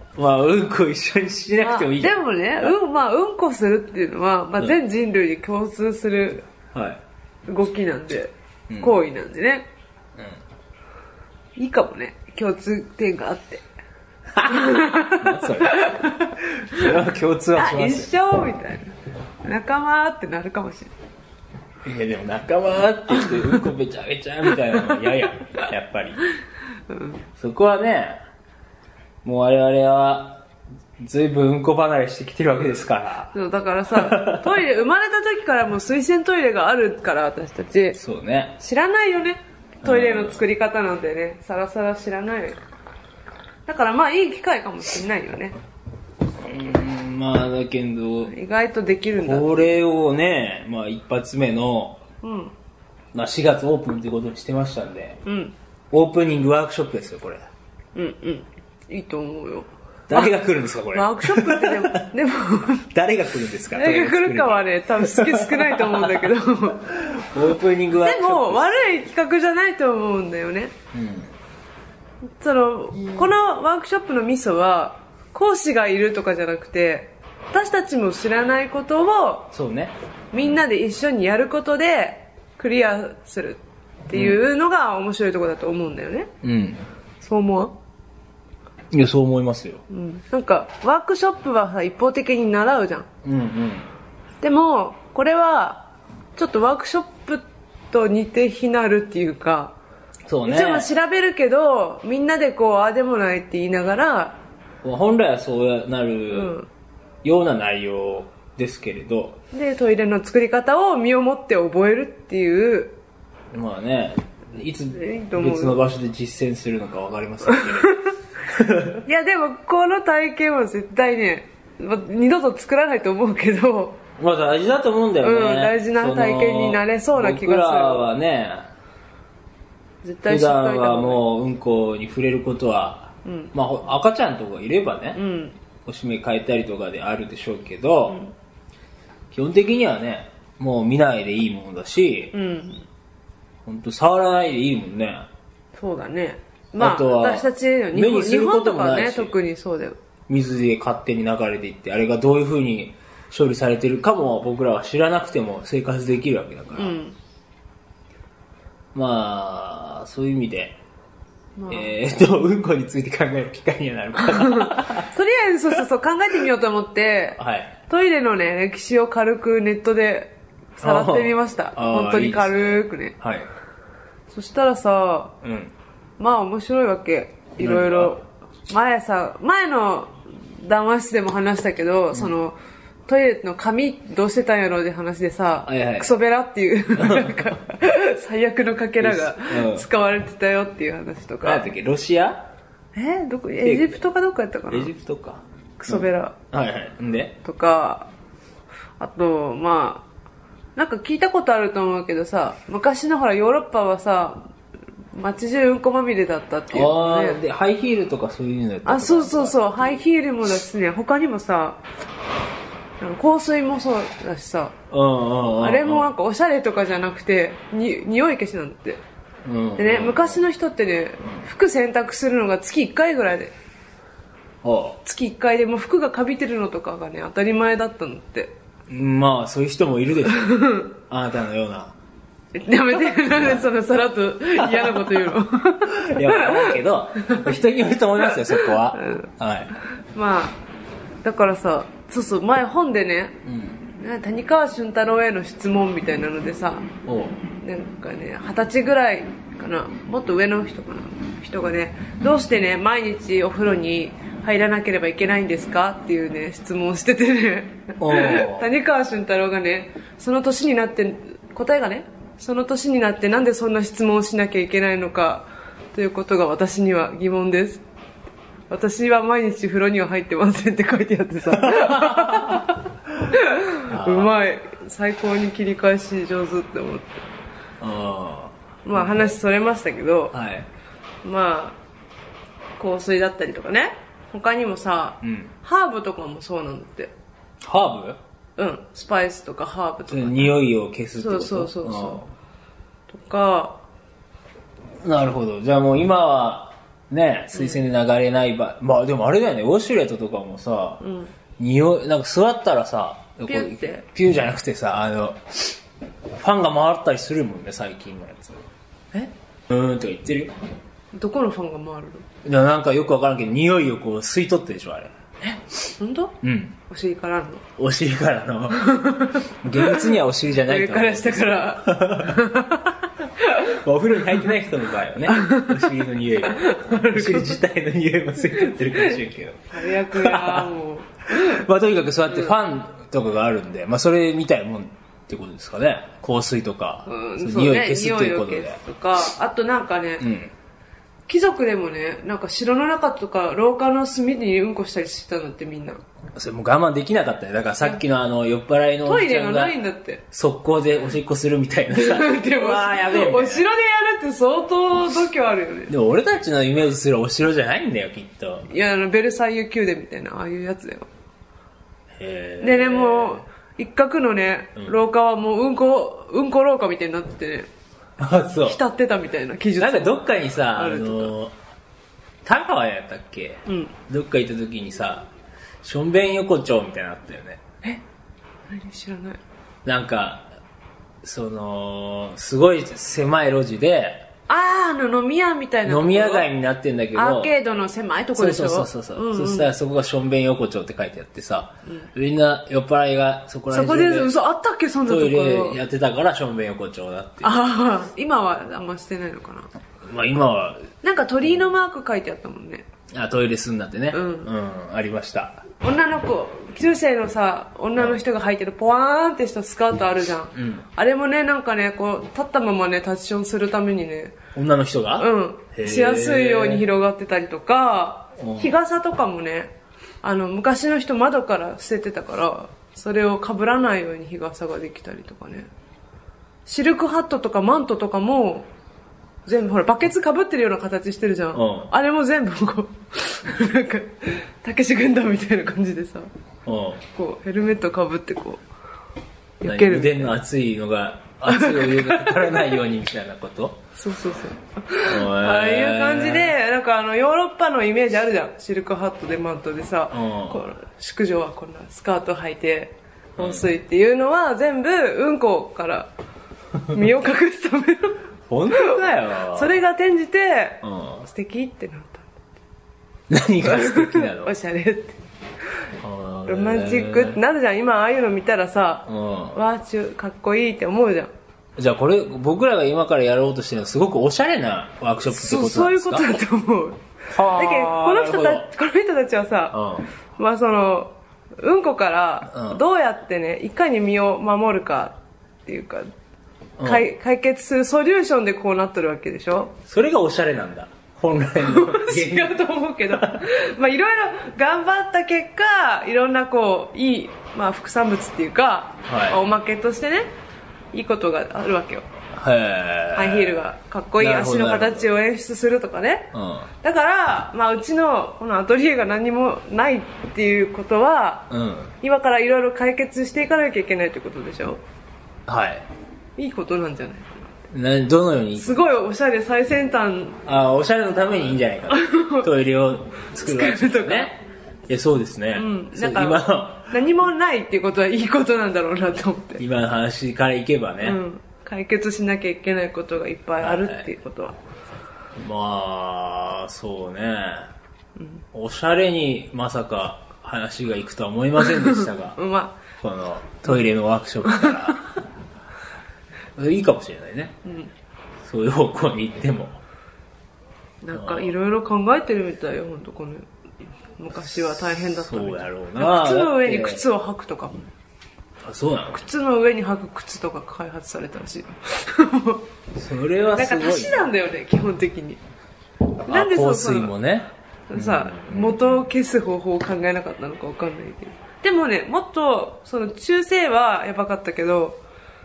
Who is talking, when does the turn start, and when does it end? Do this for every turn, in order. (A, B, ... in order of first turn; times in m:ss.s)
0:00.2-0:02.7 A
0:01.6-0:06.4 B
0:06.7-0:07.0 A
0:07.5-0:09.7 B
0:08.7-0:08.9 A
0:11.6-0:13.6 B
0:14.3-0:18.1 A
0:14.4-0:16.9 B
0:17.5-0:20.9 B
0:21.8-0:26.2 A
0:26.9-0:27.2 B
0:27.4-0:28.2 A
0:29.2-0:30.4 A
0:31.0-0:33.3 A
0:33.3-0:38.0 B
0:33.9-0:34.6 A
0:37.9-0:38.6 A
0:38.6-0:42.6 B
0:39.8-0:40.4 A
0:43.7-0:45.6 B
0:46.4-0:48.3 A
0:48.2-0:49.7 B
0:49.2-0:52.0 A
0:52.2-0:52.5 B
0:53.1-0:55.2 A
0:55.2-0:55.5 B
0:55.9-0:57.4 A
0:57.9-1:00.3 B
1:00.1-1:02.0 A
1:00.9-1:02.9 B
1:02.9-1:06.3 A
1:03.7-1:06.9 B
1:06.8-1:08.8 A
1:08.0-1:10.7 B
1:10.9-1:11.3 A
1:12.4-1:19.5 B
1:19.5-1:19.9 A
1:20.3-1:26.3 B
1:24.1-1:24.4 A
1:26.4-1:26.8 A
1:27.2-1:27.8 B
1:28.9-1:29.8 A
1:29.9-1:33.1 B
1:33.2-1:33.9 A
1:34.4-1:39.7 B
1:40.3-1:40.9 A
1:40.4-1:44.4 B
1:44.8-1:46.5 A
1:46.3-1:46.7 B
1:47.2-1:49.4 A
1:49.5-1:53.0 B
1:53.5-1:59.0 A
1:54.9-1:55.8 B
1:57.6-1:58.1 B
1:59.0-2:04.0 B
2:04.2-2:08.7 A
2:05.2-2:08.1 B
2:10.0-2:11.2 B
2:10.2-2:15.2 A
2:13.2-2:13.5 B
2:15.1-2:15.6 B
2:15.8-2:18.2 A
2:19.3-2:22.3 A
2:22.3-2:22.8 B
2:23.6-2:25.3 A
2:25.8-2:30.0 B
2:26.8-2:29.3 A
2:30.3-2:37.0 A
2:36.7-2:37.2 B
2:38.9-2:40.8 A
2:41.6-2:42.0 B
2:41.7-2:45.1 A
2:44.3-2:53.2 B
2:47.4-2:47.8 A
2:50.8-2:53.5 A
2:54.3-2:55.4 B
2:55.4-2:55.7 A
2:56.2-3:02.6 B
2:57.6-2:58.2 A
3:03.1-3:11.7 B
3:05.6-3:06.1 A
3:07.0-3:07.4 A
3:09.0-3:09.9 A
3:11.4-3:12.5 A
3:12.9-3:14.9 B
3:13.6-3:14.0 A
3:14.7-3:17.4 A
3:15.8-3:16.3 B
3:17.4-3:18.1 B
3:19.0-3:20.0 B
3:20.8-3:24.5 B
3:25.1-3:27.4 B
3:26.7-3:29.9 A
3:28.8-3:31.8 B
3:33.0-3:34.7 B
3:34.9-3:36.1 A
3:35.6-3:39.0 B
3:39.4-3:40.4 A
3:39.8-3:43.5 B
3:44.6-3:45.0 A
3:45.0-3:48.5 B
3:48.9-3:51.9 A
3:50.3-3:50.9 B
3:52.5-3:57.4 B
3:53.0-3:53.7 A
3:54.6-3:55.3 A
3:55.8-3:59.7 A
3:58.5-3:59.3 B
4:00.1-4:00.6 B
4:01.2-4:03.4 B
4:03.4-4:03.8 A
4:04.0-4:06.9 B
4:07.0-4:07.4 A
4:07.6-4:27.8 B
4:18.0-4:18.7 A
4:28.7-4:37.2 B
4:31.5-4:32.8 A
4:33.9-4:34.3 A
4:37.8-4:39.3 A
4:38.8-4:40.4 B
4:40.3-4:40.7 A
4:41.2-4:41.8 B
4:42.8-4:47.1 B
4:45.2-4:45.5 A
4:47.6-4:48.2 A
4:48.6-4:50.6 B
4:50.1-4:52.3 A
4:51.2-4:52.2 B
4:53.1-4:53.8 B
4:55.0-5:01.0 A
4:57.5-4:57.8 B
5:01.0-5:01.3 B
5:01.6-5:05.8 A
5:03.5-5:04.0 B
5:06.3-5:08.6 A
5:09.7-5:10.5 A
5:11.1-5:12.2 B
5:12.4-5:15.6 A
5:16.0-5:16.4 B
5:16.4-5:16.8 A
5:16.9-5:17.6 B
5:17.8-5:22.5 A
5:18.7-5:23.7 B
5:23.6-5:30.7 A
5:25.3-5:25.8 B
5:26.4-5:27.6 B
5:28.9-5:29.2 B
5:29.7-5:31.6 B
5:31.3-5:38.8 A
5:37.0-5:40.3 B
5:40.2-5:40.5 A
5:41.3-5:46.0 B
5:46.3-5:49.8 A
5:49.0-5:50.2 B
5:50.3-5:53.7 A
5:51.9-5:55.9 B
5:55.9-5:58.7 A
5:58.7-6:01.1 B
6:02.2-6:03.4 A
6:02.6-6:07.7 B
6:08.2-6:08.8 A
6:08.6-6:11.3 B
6:09.8-6:11.5 A
6:12.4-6:15.3 A
6:13.7-6:13.9 B
6:15.8-6:17.6 A
6:18.7-6:19.4 B
6:19.8-6:20.5 A
6:21.2-6:24.3 A
6:24.5-6:26.5 B
6:25.8-6:27.5 A
6:27.1-6:29.7 B
6:28.3-6:34.3 A
6:33.7-6:35.8 B
6:35.0-6:37.5 A
6:37.4-6:39.7 B
6:40.0-6:40.9 A
6:41.0-6:42.8 B
6:43.1-6:45.6 A
6:44.1-6:44.5 B
6:45.8-6:54.4 B
6:50.5-6:50.8 A
6:54.5-6:56.8 A
6:55.2-7:05.7 B
6:58.4-6:58.7 A
7:06.6-7:08.7 B
7:09.4-7:16.3 B
7:11.5-7:11.9 A
7:16.6-7:17.0 A
7:17.1-7:18.6 B
7:19.6-7:20.4 B
7:19.6-7:23.8 A
7:21.5-7:22.7 B
7:24.0-7:36.1 B
7:25.0-7:26.5 A
7:30.1-7:30.6 A
7:33.4-7:33.7 A
7:36.8-7:42.3 B
7:38.5-7:39.7 A
7:40.8-7:41.2 A
7:43.3-7:44.5 A
7:43.6-7:45.2 B
7:46.0-7:47.4 A
7:46.5-7:51.3 B
7:49.1-7:49.6 A
7:51.8-7:56.3 A
7:55.3-7:59.8 B
7:57.3-7:58.7 A
7:59.7-8:00.1 A
8:00.4-8:06.1 B
8:02.5-8:02.8 A
8:06.8-8:07.1 A
8:06.8-8:09.8 B
8:09.9-8:13.4 A
8:11.6-8:20.3 B
8:19.0-8:19.4 A
8:20.9-8:22.1 B
8:22.3-8:25.1 A
8:23.1-8:31.5 B
8:26.3-8:26.7 A
8:31.5-8:31.9 A
8:32.0-8:34.8 B
8:35.5-8:35.9 A
8:36.4-8:37.5 B
8:37.7-8:38.8 A
8:38.6-8:40.4 B
8:40.4-8:46.9 A
8:41.9-8:42.5 B
8:43.3-8:44.3 B
8:45.5-8:49.6 B
8:49.6-8:51.2 A
8:51.0-8:54.6 B
8:53.6-8:54.1 A
8:55.4-8:57.7 A
8:58.2-8:58.4 B
8:58.5-9:02.4 A
9:01.6-9:02.8 B
9:03.0-9:05.1 A
9:04.4-9:04.9 B
9:06.6-9:07.6 A
9:07.6-9:07.9 B
9:08.4-9:09.8 A
9:11.0-9:13.4 B
9:11.1-9:11.5 A
9:14.2-9:17.9 B
9:14.9-9:17.0 A
9:18.6-9:19.2 A
9:19.1-9:22.6 B
9:22.9-9:24.3 A
9:23.5-9:25.4 B
9:26.2-9:29.1 A
9:26.2-9:27.1 B
9:27.9-9:35.0 B